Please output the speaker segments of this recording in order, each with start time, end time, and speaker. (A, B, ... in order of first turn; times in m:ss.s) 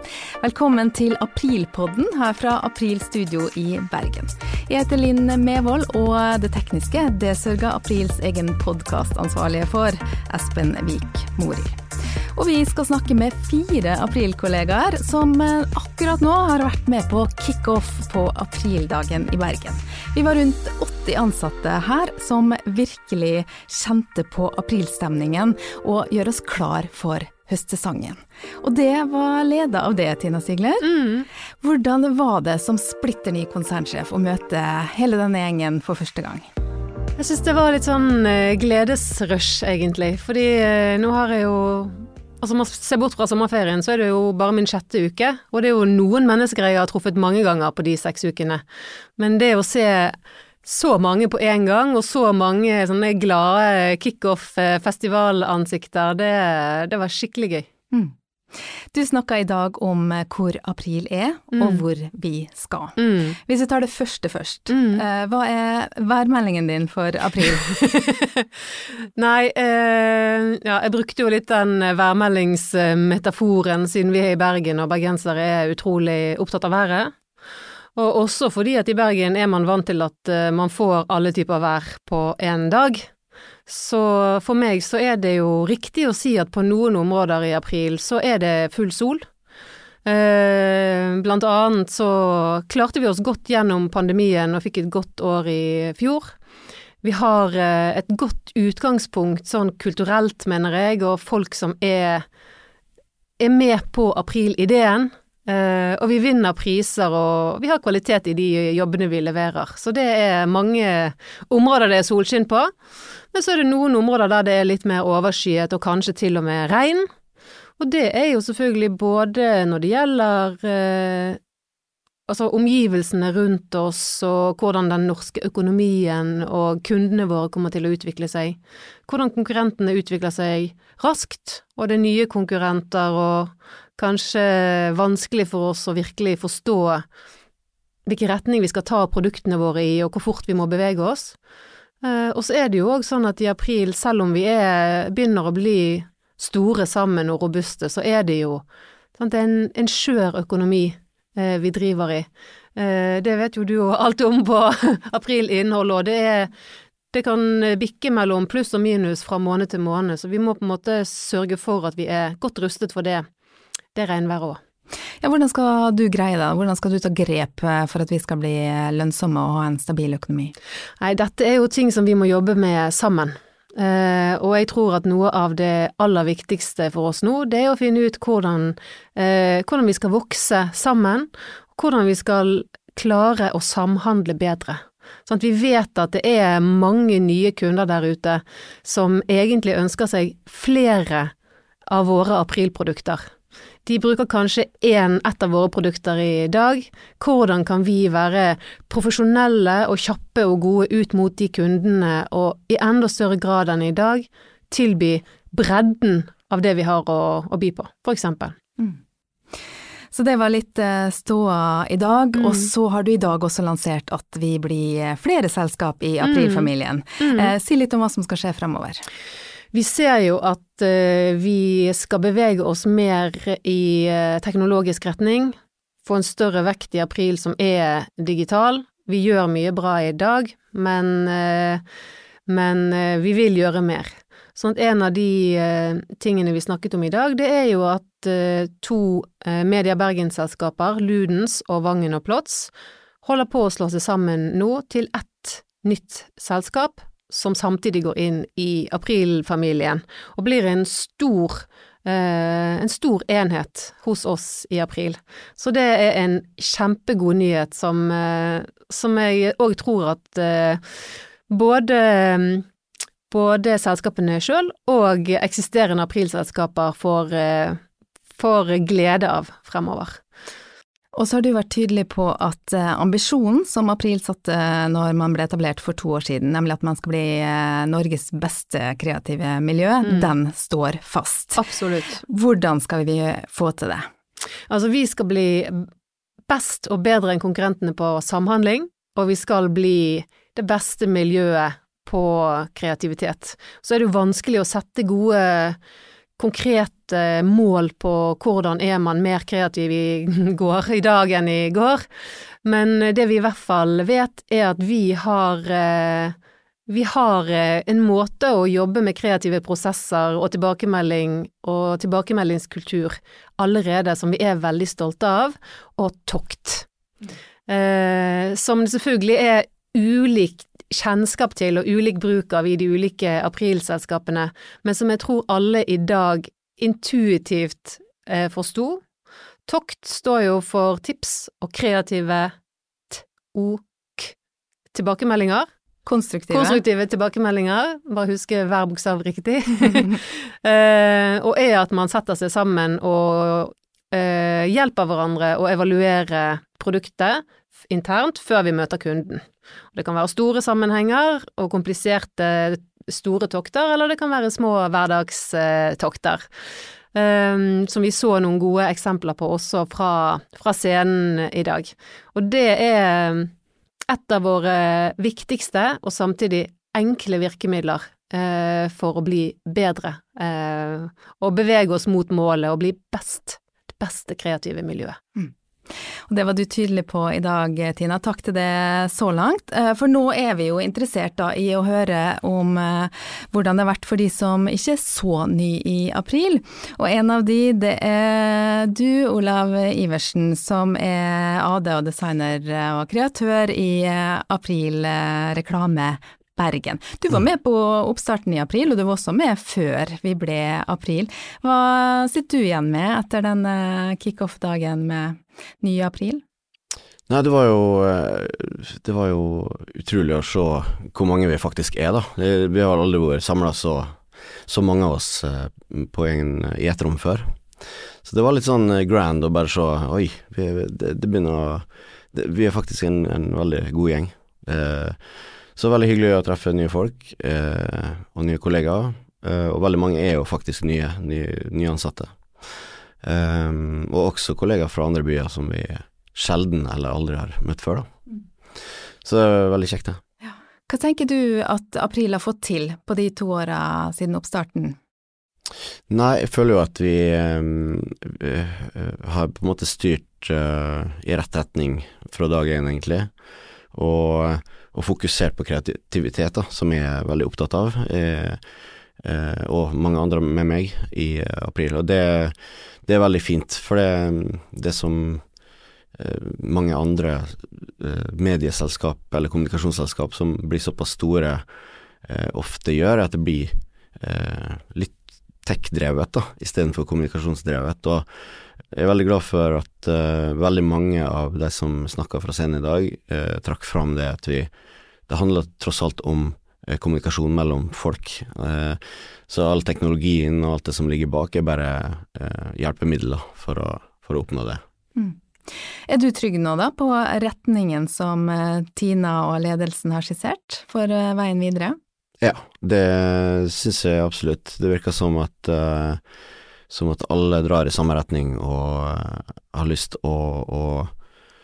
0:00.4-0:11.8 A
0:12.3-0:30.9 A
0:30.8-0:31.2 B
0:31.6-0:36.5 A
0:37.2-0:48.6 B
0:49.2-0:57.7 B
0:58.9-1:07.8 A
1:01.5-1:01.8 B
1:03.0-1:03.3 B
1:04.7-1:05.0 B
1:07.7-1:08.2 B
1:09.2-1:17.1 B
1:18.0-1:23.0 B
1:23.7-1:29.2 B
1:30.0-1:36.3 B
1:37.0-1:42.2 B
1:43.4-1:52.7 B
1:53.3-1:57.0 B
1:57.8-2:01.4 B
2:02.3-2:17.0 B
2:18.0-2:21.4 B
2:22.0-2:28.6 B
2:29.2-2:36.5 B
2:37.1-2:43.2 B
2:43.9-2:44.6 B
2:45.2-2:50.5 A
2:51.0-3:11.3 B
3:11.9-3:13.2 B
3:13.8-3:28.5 B
3:30.1-3:39.0 A
3:32.4-3:32.6 B
3:36.2-3:37.5 B
3:39.7-3:45.5 B
3:46.0-3:51.8 B
3:52.5-4:02.7 B
4:03.2-4:20.8 B
4:21.5-4:22.6 B
4:23.3-4:27.8 B
4:28.4-4:30.2 B
4:31.1-4:44.1 A
4:40.0-4:40.3 B
4:41.6-4:42.2 B
4:44.7-4:45.7 B
4:46.5-4:55.8 B
4:56.4-5:02.0 B
5:02.6-5:06.4 B
5:06.9-5:16.8 B
5:17.7-5:29.0 B
5:29.7-5:32.5 B
5:33.1-5:34.3 B
5:34.9-5:35.7 B
5:36.0-5:36.8 A
5:36.5-5:49.4 B
5:49.9-5:56.5 B
5:57.1-6:03.5 B
6:04.1-6:15.2 B
6:16.3-6:46.4 A
6:47.3-7:18.1 C
7:18.7-7:20.2 C
7:20.4-7:25.0 A
7:26.1-7:45.6 C
7:46.1-8:14.8 C
8:16.1-8:22.0 A
8:22.4-8:31.2 C